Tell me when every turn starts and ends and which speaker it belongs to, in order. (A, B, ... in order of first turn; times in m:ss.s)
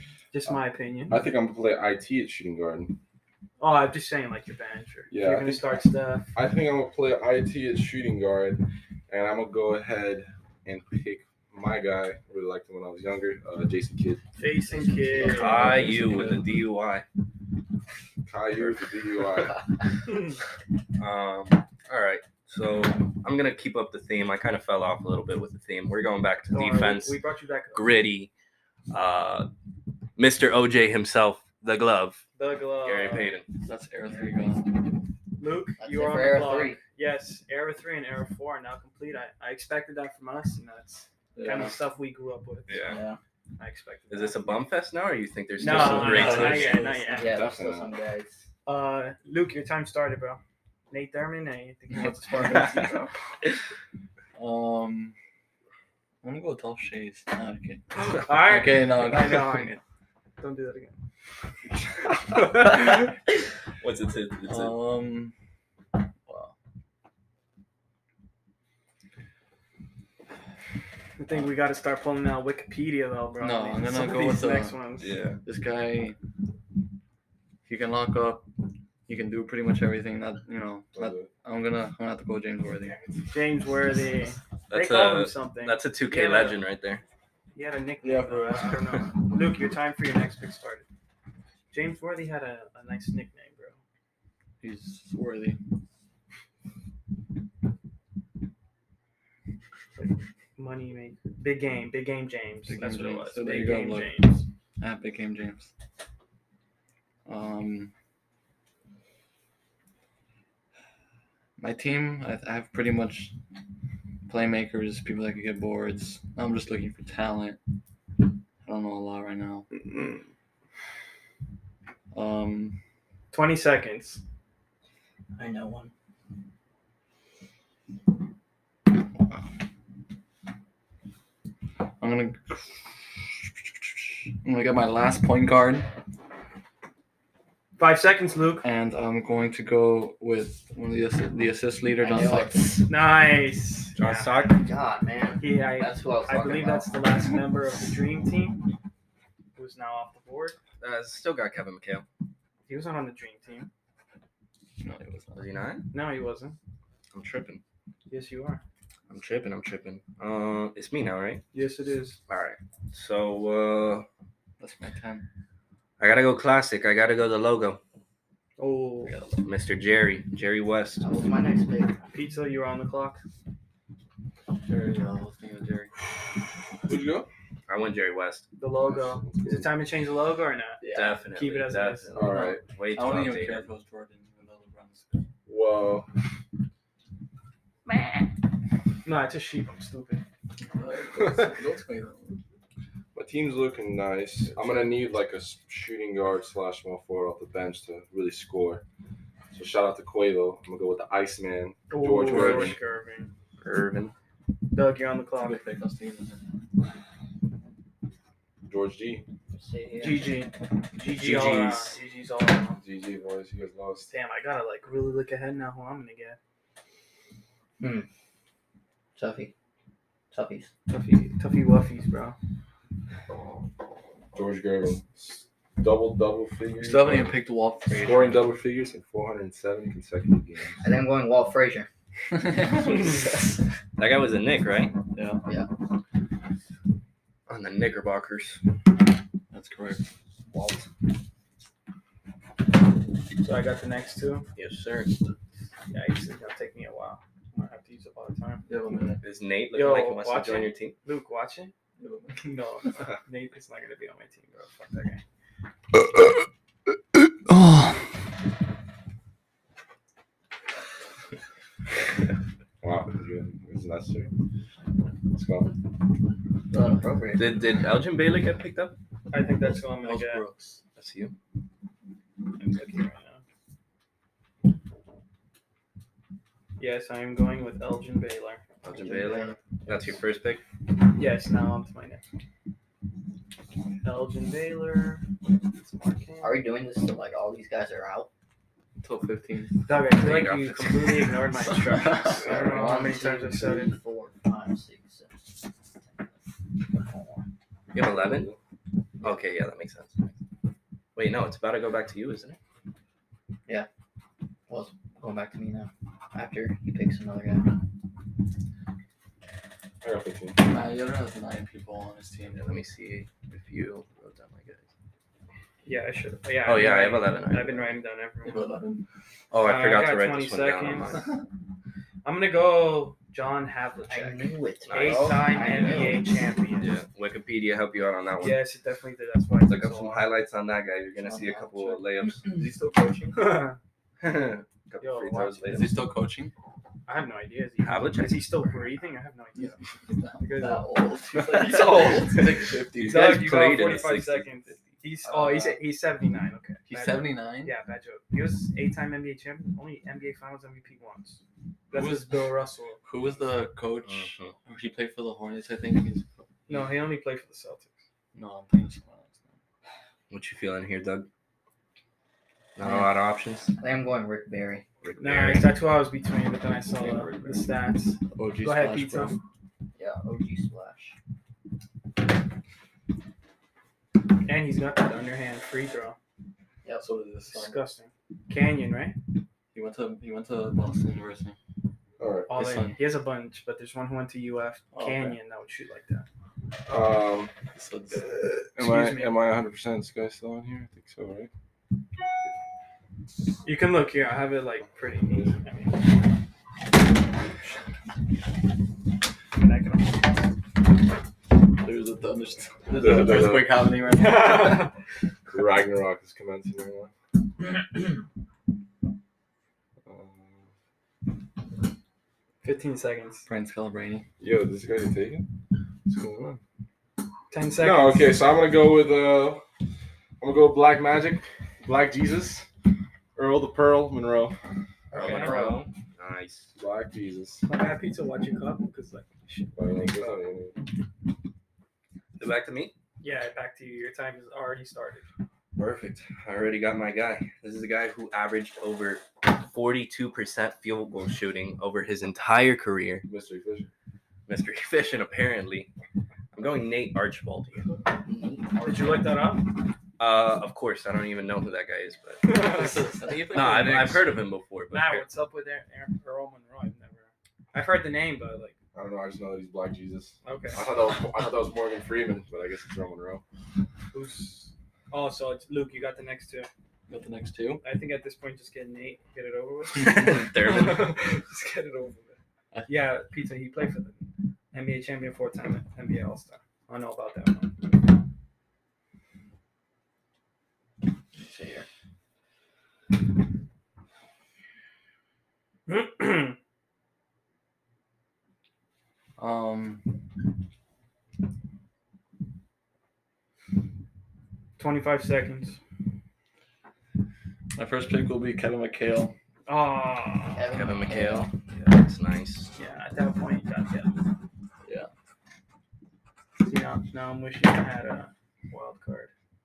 0:00.3-0:01.2 A
0:01.1-0:02.9 B
0:03.6-0:06.2 A
0:05.1-0:05.7 B
0:06.4-0:14.2 B
0:14.4-0:15.9 A
0:14.7-0:16.0 C
0:15.3-0:17.1 D
0:15.4-0:16.4 E
0:18.3-0:19.6 B
0:21.0-0:27.2 D
0:26.5-0:27.9 A
0:27.7-0:28.3 D
0:28.9-0:29.5 D
0:30.2-0:32.2 D
0:32.4-0:33.4 A
0:32.8-0:33.5 D
0:33.6-0:34.8 E
0:35.4-0:42.9 A
0:35.8-0:36.8 C
0:41.4-0:41.8 E
0:42.7-0:43.0 D
0:42.9-0:43.2 C
0:43.6-0:44.4 A
0:44.1-0:46.9 D
0:45.6-0:47.3 A
0:45.6-0:47.3 E
0:45.8-0:46.2 B
0:47.2-0:48.4 C
0:47.2-0:47.9 B
0:48.7-0:50.4 A
0:50.9-0:53.0 A
0:52.1-0:53.1 E
0:54.4-0:55.2 E
0:56.2-0:59.8 E
0:58.2-0:59.8 A
1:00.4-1:01.0 A
1:02.3-1:04.8 D
1:04.5-1:05.3 E
1:06.3-1:06.6 E
1:11.2-1:15.1 A
1:13.4-1:14.8 E
1:15.0-1:15.4 D
1:15.4-1:16.2 E
1:17.7-1:18.5 E
1:19.1-1:23.0 E
1:21.0-1:21.3 B
1:23.3-1:26.6 A
1:24.7-1:27.0 D
1:27.6-1:30.8 A
1:28.0-1:29.1 E
1:31.7-1:33.8 A
1:34.6-1:35.6 E
1:40.0-1:44.4 A
1:42.7-1:45.7 E
1:47.3-1:47.9 E
1:51.6-1:53.4 E
1:54.3-1:57.6 E
1:58.6-1:59.7 E
1:59.7-2:00.2 A
2:02.1-2:02.8 E
2:03.3-2:04.2 A
2:05.4-2:05.9 C
2:12.0-2:15.9 E
2:17.8-2:18.6 A
2:18.6-2:22.8 E
2:22.0-2:22.9 C
2:22.8-2:24.5 A
2:24.0-2:24.6 D
2:24.5-2:26.9 C
2:25.4-2:28.6 A
2:29.6-2:30.6 A
2:30.8-2:32.0 D
2:32.7-2:33.7 A
2:34.8-2:35.5 E
2:35.4-2:35.9 D
2:35.9-2:36.6 A
2:37.1-2:37.6 D
2:38.1-2:38.6 A
2:39.1-2:41.4 D
2:41.5-2:42.2 A
2:42.3-2:44.1 D
2:44.6-2:45.3 E
2:46.0-2:47.8 D
2:48.6-2:49.2 A
2:49.4-2:51.0 D
2:51.0-2:52.1 C
2:52.1-2:53.2 A
2:54.6-2:55.9 E
2:56.8-2:57.3 B
2:57.7-2:58.5 D
2:58.6-3:02.6 A
2:58.9-2:59.7 B
3:00.8-3:01.1 E
3:00.9-3:03.7 D
3:02.1-3:02.6 B
3:02.9-3:05.2 E
3:05.5-3:06.1 B
3:09.0-3:10.2 A
3:10.7-3:12.4 E
3:13.1-3:18.8 B
3:19.5-3:22.8 B
3:21.9-3:23.3 A
3:22.2-3:22.8 E
3:23.6-3:24.1 D
3:24.7-3:25.6 A
3:25.4-3:26.4 E
3:28.7-3:29.2 B
3:29.5-3:30.4 C
3:30.0-3:32.8 A
3:31.1-3:32.0 D
3:32.8-3:34.1 B
3:34.1-3:36.4 A
3:37.8-3:38.1 C
3:39.2-3:39.5 C
3:40.3-3:40.7 C
3:40.9-3:42.4 A
3:44.3-3:47.4 B
3:46.8-3:48.5 E
3:47.9-3:50.8 B
3:50.8-3:51.9 C
3:52.6-3:54.9 D
3:55.1-3:55.4 E
3:55.4-3:55.7 C
3:57.5-3:58.6 D
3:59.5-4:00.0 E
4:00.5-4:00.8 D
4:03.4-4:04.5 A
4:04.6-4:05.2 D
4:05.9-4:08.6 A
4:08.7-4:09.2 E
4:09.2-4:11.0 D
4:09.7-4:11.7 A
4:12.0-4:12.5 E
4:12.4-4:15.2 A
4:17.3-4:18.1 E
4:22.8-4:24.4 B
4:25.3-4:25.8 B
4:26.7-4:27.5 C
4:27.4-4:29.0 D
4:29.3-4:30.4 A
4:29.4-4:30.8 E
4:31.0-4:31.3 D
4:32.6-4:33.4 A
4:36.8-4:38.6 A
4:38.8-4:40.6 D
4:38.9-4:39.6 C
4:41.2-4:42.2 A
4:44.0-4:46.6 A
4:46.4-4:48.3 C
4:49.0-4:49.9 E
4:49.9-4:54.0 A
4:50.1-4:51.4 D
4:51.6-4:53.2 E
4:52.4-4:57.5 C
4:57.9-4:58.5 D
4:58.0-4:58.6 B
4:59.2-5:00.3 D
5:01.2-5:02.6 D
5:04.7-5:07.8 C
5:10.0-5:10.7 B
5:10.6-5:12.7 E
5:12.5-5:14.9 D
5:15.8-5:18.7 A
5:16.6-5:18.0 D
5:18.4-5:19.0 E
5:19.5-5:21.2 D
5:19.6-5:21.2 A
5:22.2-5:27.0 A
5:24.1-5:26.4 C
5:24.9-5:26.2 D
5:26.8-5:28.7 D
5:28.4-5:30.3 A
5:29.7-5:32.5 D
5:31.2-5:32.0 C
5:32.4-5:33.6 E
5:33.3-5:33.8 A
5:34.2-5:36.0 D
5:35.0-5:35.8 A
5:35.7-5:36.5 E
5:37.1-5:39.8 A
5:37.8-5:38.7 D
5:39.6-5:43.5 E
5:40.4-5:42.1 A
5:41.5-5:44.8 D
5:43.0-5:53.0 A
5:45.3-5:45.8 E
5:46.9-5:47.7 E
5:51.9-5:52.3 E
5:53.0-5:57.0 E
5:54.1-5:54.6 D
5:56.7-5:57.9 A
5:58.4-5:59.4 E
6:00.3-6:01.3 D
6:02.8-6:03.8 D
6:02.8-6:03.1 C
6:03.8-6:04.8 C
6:05.0-6:05.8 D
6:05.2-6:09.4 A
6:07.0-6:07.6 D
6:08.3-6:09.4 E
6:10.0-6:11.2 C
6:14.4-6:16.2 A
6:17.0-6:17.8 E
6:17.5-6:19.2 A
6:19.7-6:21.6 E
6:22.2-6:22.5 B
6:22.5-6:26.3 A
6:22.5-6:23.0 E
6:24.9-6:25.4 E
6:26.9-6:27.5 B
6:27.7-6:28.5 E
6:28.5-6:31.5 B
6:28.8-6:29.4 A
6:33.6-6:36.0 A
6:39.5-6:40.4 A
6:41.7-6:44.9 E
6:42.9-6:43.8 B
6:44.1-6:44.9 A
6:45.5-6:47.1 B
6:50.0-6:50.7 B
6:52.6-6:53.5 A
6:53.5-6:54.3 E
6:54.4-6:55.5 B
6:56.1-6:56.6 B
6:57.5-6:58.4 A
6:57.8-6:59.6 B
7:00.4-7:02.7 B
7:03.4-7:04.6 B
7:05.1-7:05.8 C
7:05.1-7:06.7 D
7:05.2-7:05.6 A
7:06.8-7:07.7 B
7:07.6-7:10.5 A
7:09.8-7:10.8 B
7:12.4-7:12.9 D
7:13.2-7:15.3 A
7:15.8-7:23.2 D
7:23.3-7:23.9 B
7:24.5-7:25.9 D
7:26.5-7:27.9 D
7:28.2-7:29.4 C
7:28.8-7:29.8 A
7:30.2-7:32.7 D
7:32.4-7:33.1 A
7:32.5-7:34.3 E
7:33.4-7:35.3 D
7:34.9-7:38.8 A
7:38.9-7:43.4 B
7:40.4-7:40.9 A
7:44.1-7:46.7 A
7:47.1-7:47.8 E
7:47.8-7:57.9 A
7:50.0-7:51.2 D
8:01.3-8:01.9 C
8:05.9-8:06.6 A
8:09.4-8:10.2 E
8:14.8-8:15.8 A
8:17.8-8:19.4 E
8:19.7-8:20.7 A
8:20.6-8:21.5 C
8:20.7-8:22.7 D
8:22.8-8:24.2 A
8:26.6-8:29.3 A